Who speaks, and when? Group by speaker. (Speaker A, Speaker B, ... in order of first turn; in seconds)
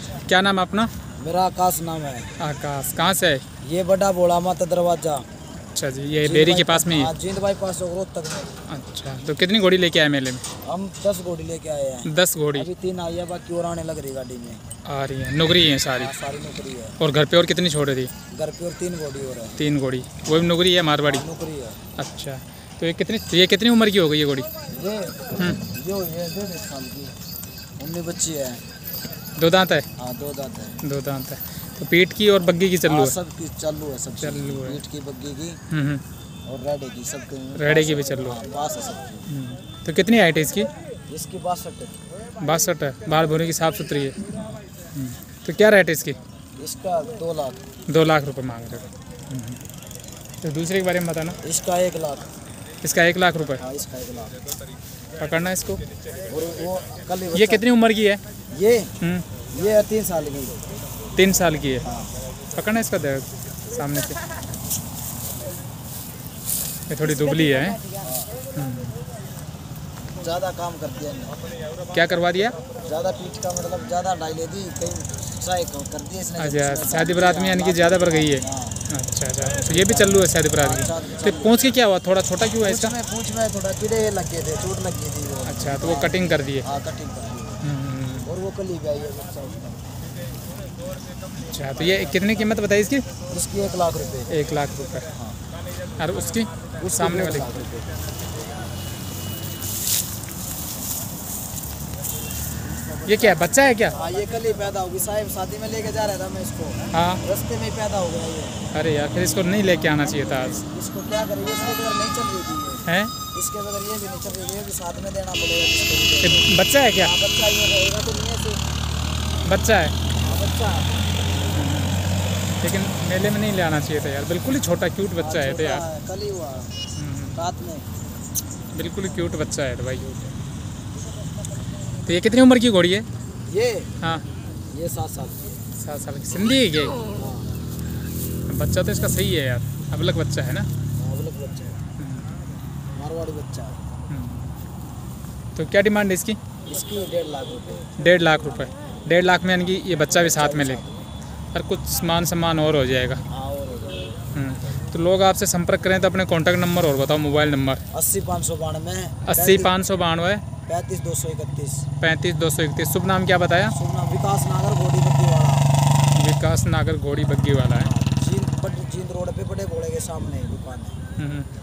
Speaker A: 0.3-0.9, 2.4-3.4, 5.8-7.1, 8.7-10.4, 12.0-12.7, 14.8-16.1, 17.0-18.1, 19.6-21.2, 22.0-24.5, 29.4-29.9, 30.8-33.1, 34.2-34.8, 35.7-36.0, 37.5-38.4, 39.3-40.7, 42.4-44.3, 44.9-46.2, 47.9-49.6, 50.4-51.4, 52.8-53.6, 55.2-55.8, 57.3-58.2, 61.1-61.9, 62.5-64.2, 66.9-67.8, 68.5-69.0, 71.9-72.5, 76.4-82.9, 85.5-86.6, 87.6-88.3, 91.3-93.0, 94.3-95.1, 96.0-97.6, 103.1-104.0, 106.9-107.2, 108.7-110.6, 112.9-113.1, 116.2-117.1, 119.4-119.9, 121.5-122.0, 122.6-125.8, 126.9-127.4, 128.7-130.1, 132.1-133.1, 135.8-136.9, 138.5-140.7, 142.0-142.3, 144.1-144.5, 145.6-146.4, 148.0-150.8, 151.5-153.2, 154.3-157.8, 159.2-160.4, 162.0-163.7, 166.1-167.9, 171.2-171.5
Speaker B: 1.2-2.3, 3.6-5.3, 6.2-8.5, 10.6-14.6, 16.0-17.0, 18.3-19.6, 21.1-21.8, 24.7-27.1, 27.8-28.6, 30.0-30.8, 32.9-35.6, 36.5-39.3, 41.1-42.0, 46.6-47.6, 51.4-52.3, 53.6-54.3, 56.3-57.6, 58.5-58.9, 59.5-60.6, 61.9-62.1, 68.0-68.3, 70.2-71.4, 72.8-78.8, 79.7-81.6, 82.6-87.6, 88.2-89.8, 93.3-94.3, 96.8-97.9, 102.6-108.7, 109.5-118.6, 120.2-120.9, 125.2-126.7, 127.3-127.9, 130.0-130.3, 133.5-133.9, 134.7-135.6, 137.1-137.5, 141.0-141.8, 142.9-143.8, 146.7-147.9, 150.1-151.1, 153.3-154.1, 157.9-159.7, 160.7-161.8, 163.7-165.7, 167.8-171.0